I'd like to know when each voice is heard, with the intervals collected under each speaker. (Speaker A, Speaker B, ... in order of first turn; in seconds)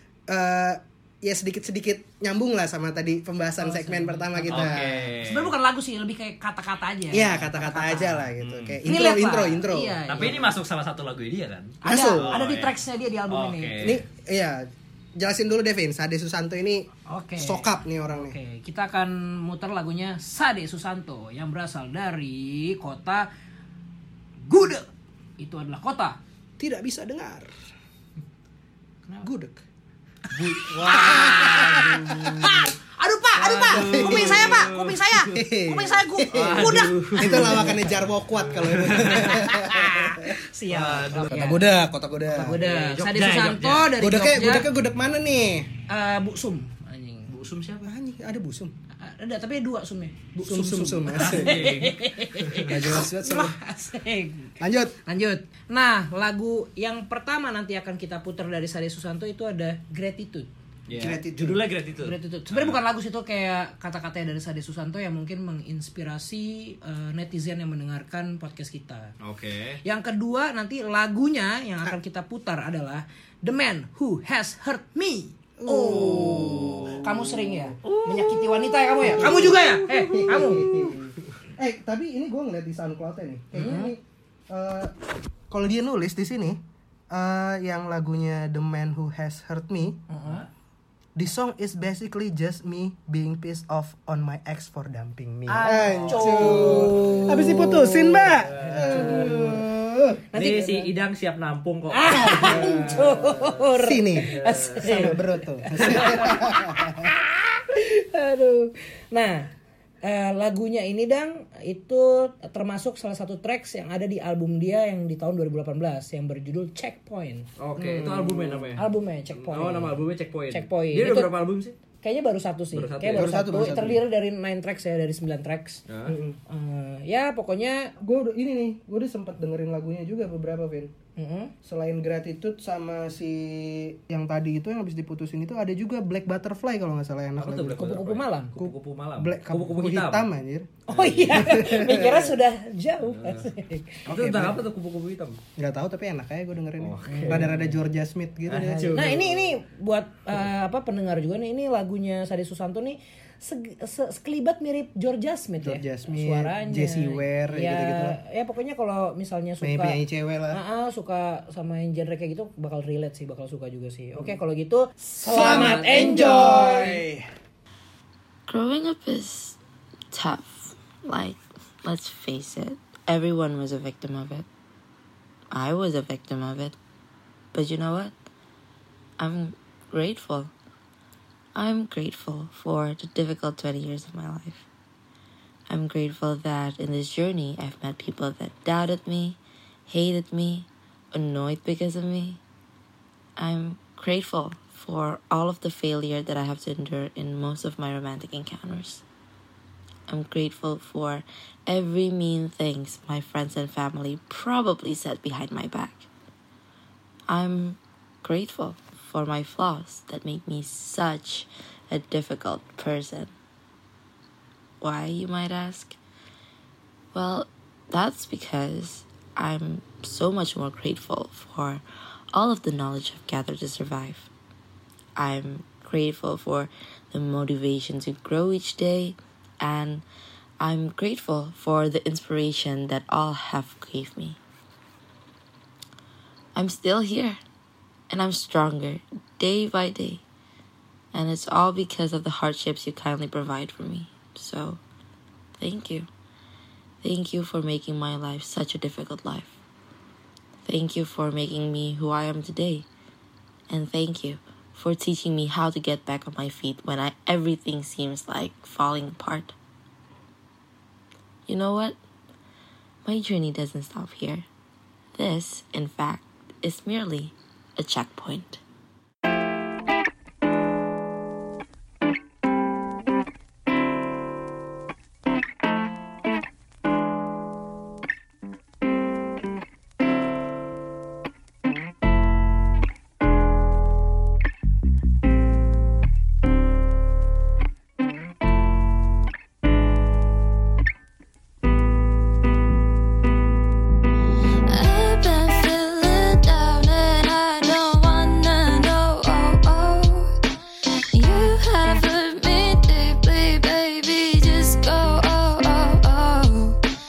Speaker A: 0.3-5.1, 7.1-10.3, 11.8-12.4, 13.8-18.4, 26.6-27.5, 29.2-29.6, 30.8-32.6, 33.6-34.7, 35.3-42.6, 44.0-45.7, 47.8-48.7, 50.4-51.7, 52.6-53.5, 54.6-55.0, 60.9-61.6, 75.6-77.6, 79.1-84.9, 85.5-90.0, 91.2-100.2, 102.3-107.1, 117.8-118.8, 123.1-124.0, 126.1-126.4, 128.0-130.9, 131.6-137.9, 139.2-140.7, 141.3-142.3, 144.1-144.6, 145.6-149.0, 155.6-158.2, 159.6-160.6, 165.2-167.3
Speaker B: 3.6-8.3, 8.8-10.5, 11.8-13.8, 17.1-23.3, 24.5-24.9, 25.4-26.2, 30.6-37.9, 39.0-41.7, 42.2-44.7, 45.9-47.3, 49.0-60.5, 62.0-69.1, 69.8-80.7, 83.5-84.0, 90.1-90.5, 95.5-99.6, 100.3-100.9, 101.9-109.5, 110.0-117.5, 118.8-121.3, 122.0-125.8, 126.5-127.9, 131.2-131.5, 137.8-138.7, 140.9-144.1, 147.1-147.5, 148.9-160.0, 160.5-167.0
Speaker C: 4.5-5.5, 8.4-8.8, 10.1-12.8, 13.3-14.0, 30.3-32.5, 33.4-35.3, 36.3-39.6, 40.7-41.4, 42.5-44.0, 47.3-47.9, 51.1-52.8, 60.9-62.8, 69.2-69.8, 75.7-77.0, 77.8-79.5, 80.3-80.9, 95.9-97.2, 98.5-99.6, 100.3-103.5, 104.3-105.2, 105.8-106.3, 117.6-121.8, 122.7-124.0, 125.9-126.2, 137.4-140.3, 140.9-141.6, 143.1-143.5, 144.1-145.4, 146.8-147.8, 148.5-149.5, 165.3-166.5
Speaker D: 168.5-169.6, 170.1-174.5, 175.5-176.8, 177.5-178.1, 179.2-180.5, 181.6-184.7, 185.7-192.4, 193.4-199.0, 200.1-206.1, 207.3-213.3, 214.8-216.0, 217.1-224.3, 225.2-230.0, 230.6-234.4, 236.6-237.4, 238.1-240.2, 241.1-244.8, 245.6-246.1, 247.0-249.6, 250.7-252.9, 253.7-259.5, 261.5-262.0, 263.1-264.5, 265.2-268.6
Speaker E: 294.6-300.4, 301.1-306.8